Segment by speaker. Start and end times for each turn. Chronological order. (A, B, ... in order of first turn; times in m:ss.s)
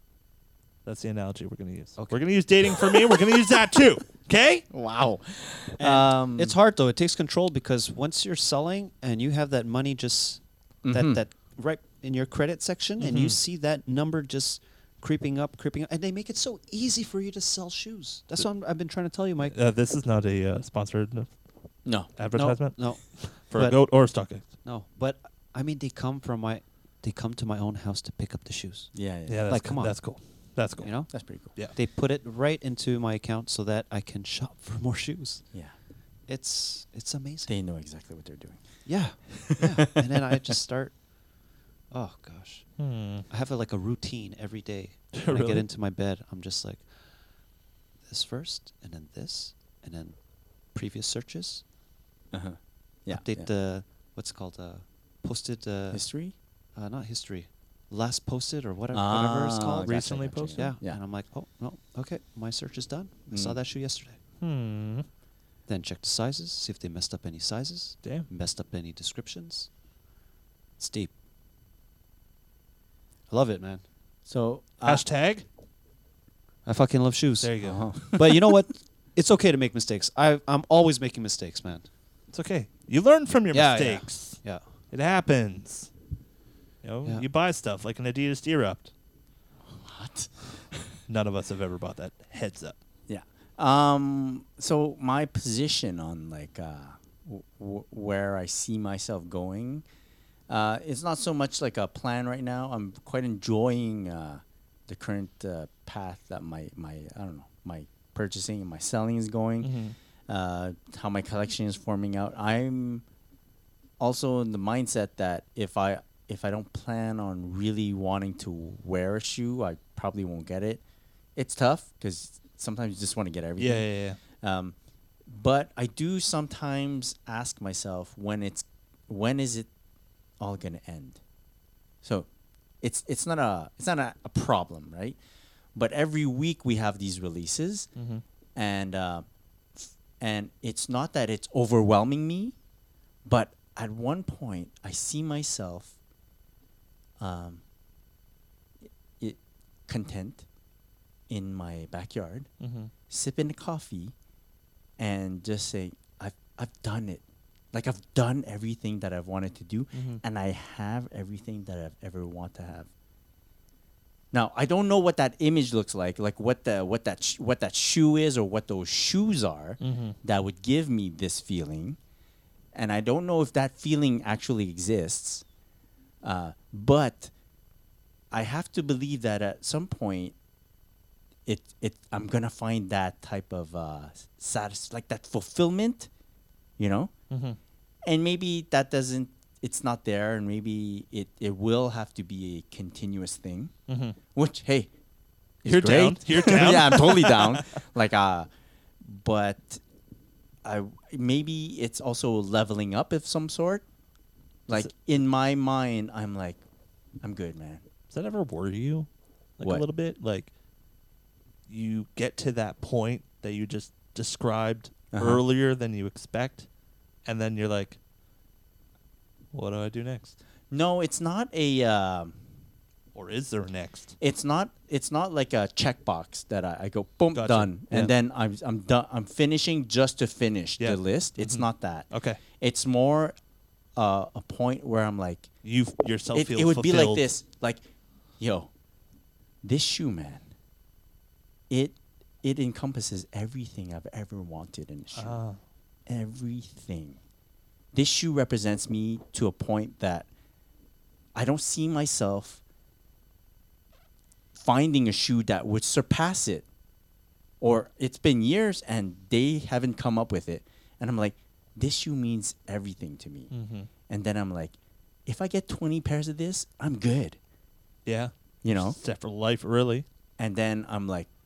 0:00.8-0:04.7 A
0:04.7-0:06.6 B
0:05.8-0:19.6 C
0:10.8-0:11.2 B
0:13.0-0:13.4 A
0:19.4-0:21.3 A
0:21.8-0:22.6 B
0:22.2-0:24.5 A
0:22.8-0:23.9 C
0:24.4-0:28.9 C
0:28.9-0:29.4 B
0:29.3-0:31.8 A
0:29.5-0:30.1 C
0:30.8-0:35.5 C
0:31.1-0:31.5 B
0:36.3-0:37.5 C
0:37.5-0:38.6 B
0:38.9-0:41.1 C
0:39.3-0:39.6 B
0:41.9-0:46.9 C
0:42.8-0:43.3 A
0:45.1-0:45.6 A
0:48.1-0:51.6 C
0:52.3-0:53.5 B
0:53.1-0:56.0 C
0:55.9-0:56.4 B
0:56.8-1:04.2 C
0:58.9-1:01.0 B
1:00.2-1:00.6 A
1:03.3-1:03.6 B
1:04.4-1:05.1 A
1:05.7-1:09.7 C
1:10.8-1:11.1 C
1:13.3-1:13.8 C
1:14.3-1:15.1 B
1:14.8-1:15.4 A
1:16.6-1:21.9 C
1:17.4-1:17.8 A
1:17.6-1:18.4 B
1:22.3-1:25.9 A
1:23.5-1:24.6 C
1:26.8-1:28.9 A
1:29.7-1:31.0 B
1:31.1-1:32.8 A
1:33.1-1:39.9 B
1:40.5-1:49.7 B
1:49.6-1:50.0 A
1:50.3-1:53.0 B
1:54.0-2:00.8 B
2:01.4-2:04.8 B
2:03.6-2:04.2 A
2:05.3-2:09.7 B
2:10.4-2:11.2 B
2:12.0-2:12.3 B
2:12.8-2:15.2 B
2:15.8-2:17.9 B
2:18.0-2:18.2 A
2:18.6-2:19.2 B
2:19.8-2:22.6 B
2:23.3-2:25.9 B
2:27.2-2:27.6 B
2:29.2-2:30.5 B
2:31.3-2:32.5 B
2:32.6-2:32.9 A
2:33.1-2:34.2 B
2:35.0-2:42.9 B
2:39.9-2:40.2 A
2:44.3-2:52.0 B
2:49.8-2:50.2 A
2:52.7-2:55.4 B
2:56.2-2:57.3 B
2:58.3-3:00.4 B
3:01.5-3:06.1 B
3:06.8-3:07.1 B
3:07.3-3:07.6 A
3:08.1-3:13.7 B
3:13.9-3:14.2 A
3:14.3-3:14.9 B
3:15.6-3:18.5 B
3:15.6-3:17.6 A
3:19.0-3:19.8 B
3:20.6-3:23.8 B
3:24.7-3:26.6 B
3:27.2-3:27.8 B
3:28.1-3:29.1 A
3:29.6-3:30.5 A
3:31.7-3:36.7 A
3:35.1-3:35.4 B
3:37.3-3:38.0 A
3:39.5-3:40.4 A
3:40.7-3:42.4 B
3:43.1-3:44.2 A
3:44.2-3:53.4 B
3:47.3-3:48.1 A
3:50.8-3:52.4 A
3:54.0-3:55.5 B
3:55.6-3:57.2 A
3:56.3-3:57.8 B
3:58.4-3:58.7 B
3:59.6-4:00.5 B
4:01.7-4:05.4 B
4:05.2-4:05.6 A
4:06.1-4:07.2 B
4:07.9-4:10.3 B
4:11.4-4:12.6 B
4:14.6-4:16.7 B
4:17.6-4:23.5 B
4:23.5-4:23.9 A
4:24.1-4:27.4 B
4:28.1-4:30.0 A
4:28.6-4:29.0 B
4:30.4-4:31.3 B